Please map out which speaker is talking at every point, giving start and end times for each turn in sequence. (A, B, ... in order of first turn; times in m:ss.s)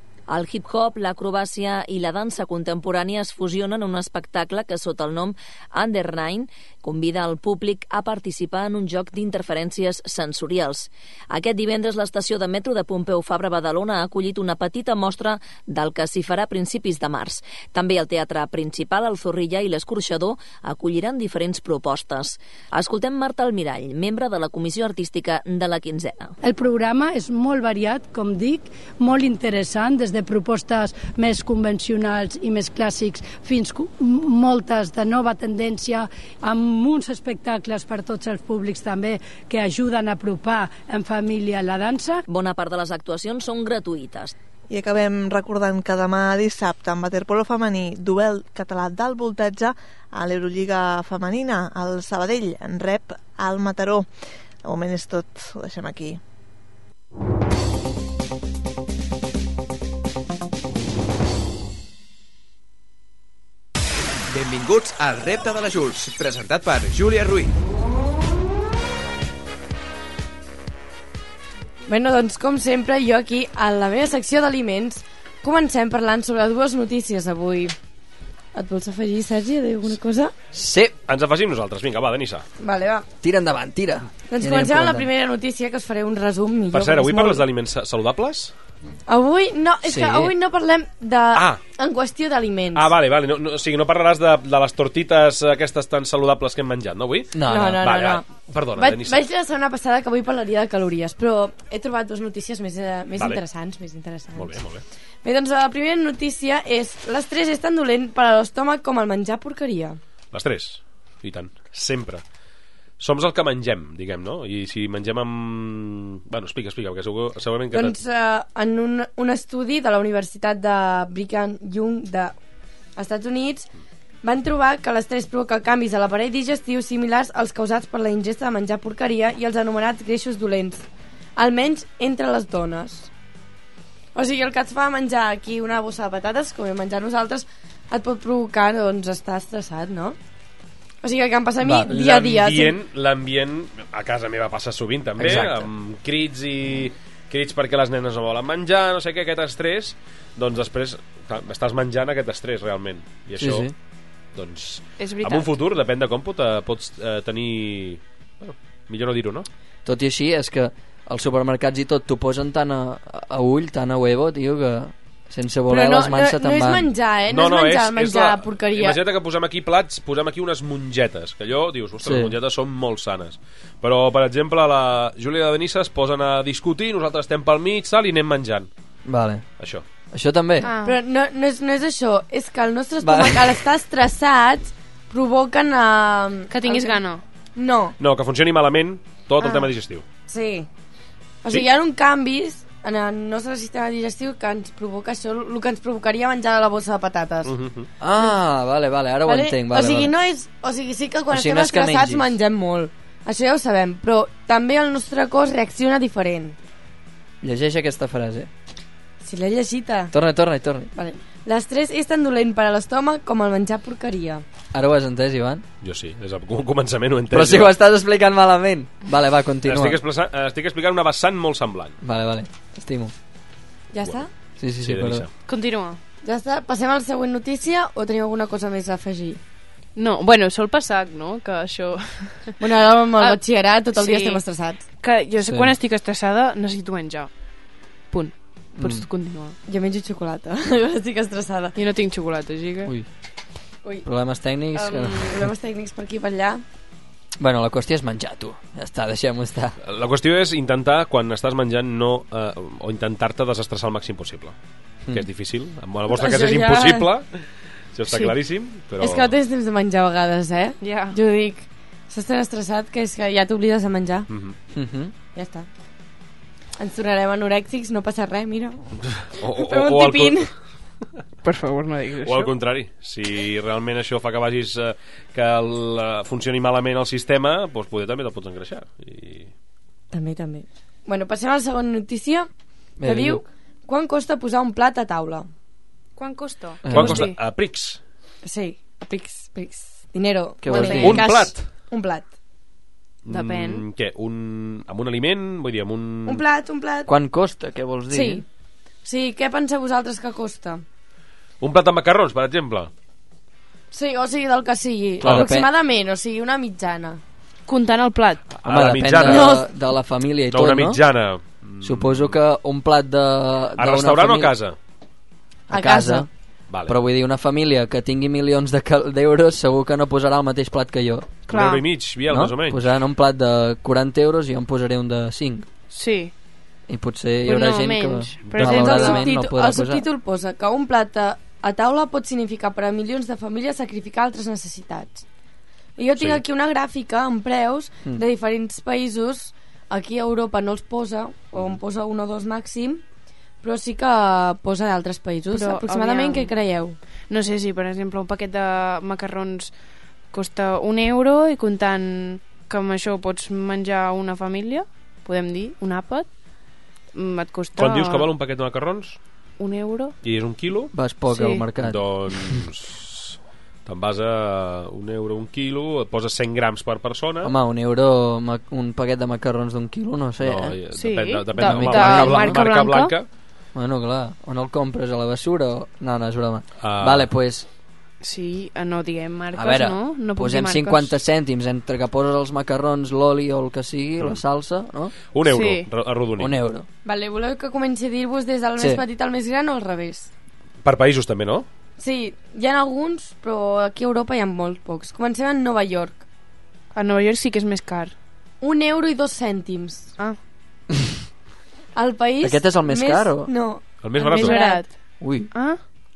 0:00.3-0:26.3 A
0:26.4-0:42.2 B
0:42.3-0:44.4 A
0:44.7-0:54.1 C
0:54.6-0:56.2 C
1:04.3-1:07.5 D
1:11.9-1:17.7 E
1:18.5-1:20.3 E
1:20.5-1:20.9 F
1:21.1-1:22.4 G
1:22.6-1:23.1 E
1:23.2-1:25.1 F
1:24.3-1:27.4 E
1:26.7-1:28.5 G
1:29.1-1:32.9 E
1:29.8-1:30.3 F
1:31.3-1:31.6 G
1:32.8-1:39.3 G
1:37.3-1:37.9 F
1:37.5-1:44.6 E
1:43.2-1:43.4 G
1:44.4-1:44.8 G
1:45.2-1:50.0 E
1:50.3-1:52.2 G
1:53.0-1:58.0 G
1:57.7-2:02.4 E
2:03.0-2:03.7 E
2:04.2-2:10.8 E
2:11.4-2:13.1 E
2:14.2-2:20.2 E
2:21.0-2:22.8 E
2:21.6-2:21.9 F
2:21.9-2:33.7 G
2:25.2-2:25.7 F
2:33.4-2:33.7 F
2:34.3-2:39.5 G
2:35.0-2:35.5 H
2:39.8-2:46.9 F
2:45.7-2:49.0 E
2:47.3-2:58.7 G
2:52.0-2:52.4 F
2:59.0-2:59.4 F
2:59.6-2:59.8 G
3:00.1-3:00.7 F
3:00.6-3:01.0 H
3:00.8-3:07.0 E
3:03.0-3:03.6 F
3:06.5-3:07.2 H
3:07.6-3:08.0 E
3:08.0-3:10.0 G
3:09.4-3:09.7 E
3:10.3-3:10.7 E
3:11.4-3:17.5 E
3:17.4-3:17.9 G
3:18.0-3:20.1 F
3:19.2-3:26.6 E
3:21.3-3:22.3 F
3:27.4-3:28.5 F
3:29.2-3:30.2 E
3:30.1-3:30.9 F
3:31.0-3:34.4 E
3:34.7-3:35.6 F
3:35.8-3:37.8 G
3:37.3-3:40.0 F
3:39.6-3:42.0 G
3:42.0-3:43.1 F
3:43.9-3:44.3 E
3:44.6-3:45.3 F
3:44.8-3:45.3 G
3:45.5-3:46.0 H
3:46.2-3:49.4 E
3:50.0-3:52.6 H
3:52.6-3:54.8 E
3:53.9-3:54.4 H
3:55.0-3:57.3 H
3:55.4-3:55.8 F
3:58.1-3:59.6 H
3:58.8-3:59.1 F
3:59.7-4:01.8 E
4:01.8-4:02.9 H
4:04.0-4:05.5 F
4:04.7-4:06.6 E
4:07.4-4:09.8 F
4:09.8-4:14.6 G
4:15.1-4:17.3 G
4:16.1-4:17.1 E
4:17.9-4:19.3 G
4:19.0-4:24.3 E
4:20.8-4:21.2 H
4:24.3-4:24.6 G
4:24.8-4:25.1 F
4:25.4-4:25.7 E
4:26.8-4:28.9 E
4:29.0-4:30.5 G
4:29.5-4:30.5 E
4:31.4-4:32.5 H
4:32.2-4:39.5 G
4:40.1-4:42.5 E
4:43.0-4:43.4 F
4:43.0-4:45.5 E
4:46.2-4:47.4 H
4:46.8-4:47.3 F
4:46.9-4:48.0 G
4:48.4-4:52.3 E
4:50.6-4:51.3 F
4:50.7-4:51.1 H
4:51.0-4:51.6 G
4:53.2-4:56.4 G
4:53.3-4:53.8 H
4:56.3-4:57.1 E
4:57.1-4:58.4 F
4:58.1-4:58.4 E
4:59.0-5:00.8 E
5:01.6-5:02.9 G
5:03.9-5:07.2 E
5:05.2-5:05.7 F
5:07.7-5:08.5 H
5:08.5-5:09.6 G
5:08.6-5:11.0 F
5:09.2-5:09.7 E
5:10.5-5:12.4 G
5:11.8-5:14.5 F
5:13.8-5:14.8 G
5:15.7-5:16.3 E
5:15.7-5:16.3 F
5:16.7-5:17.0 G
5:16.9-5:21.4 F
5:21.5-5:22.8 G
5:21.5-5:21.8 H
5:22.3-5:25.7 F
5:25.9-5:26.3 H
5:26.9-5:30.0 F
5:27.5-5:29.3 H
5:28.6-5:35.2 E
5:36.0-5:43.0 E
5:43.6-5:47.0 E
5:45.5-5:46.5 H
5:47.3-5:49.7 H
5:50.3-5:56.3 H
5:57.2-5:58.3 H
5:57.8-5:59.2 G
5:59.6-6:00.2 H
6:00.2-6:00.9 G
6:00.9-6:02.0 F
6:01.3-6:01.6 H
6:01.8-6:07.5 G
6:07.4-6:10.8 F
6:10.4-6:13.3 G
6:10.9-6:13.2 H
6:11.6-6:12.6 F
6:13.7-6:17.7 F
6:16.8-6:17.3 G
6:18.2-6:21.1 H
6:19.5-6:25.1 F
6:25.3-6:26.6 G
6:25.5-6:25.9 H
6:26.4-6:26.9 F
6:27.0-6:30.3 E
6:28.8-6:29.0 F
6:30.8-6:31.7 G
6:32.0-6:36.2 E
6:36.9-6:38.2 H
6:38.6-6:40.1 E
6:42.0-6:44.8 E
6:42.4-6:43.5 F
6:44.0-6:44.6 G
6:44.2-6:44.9 H
6:45.2-6:45.5 F
6:45.5-6:45.8 H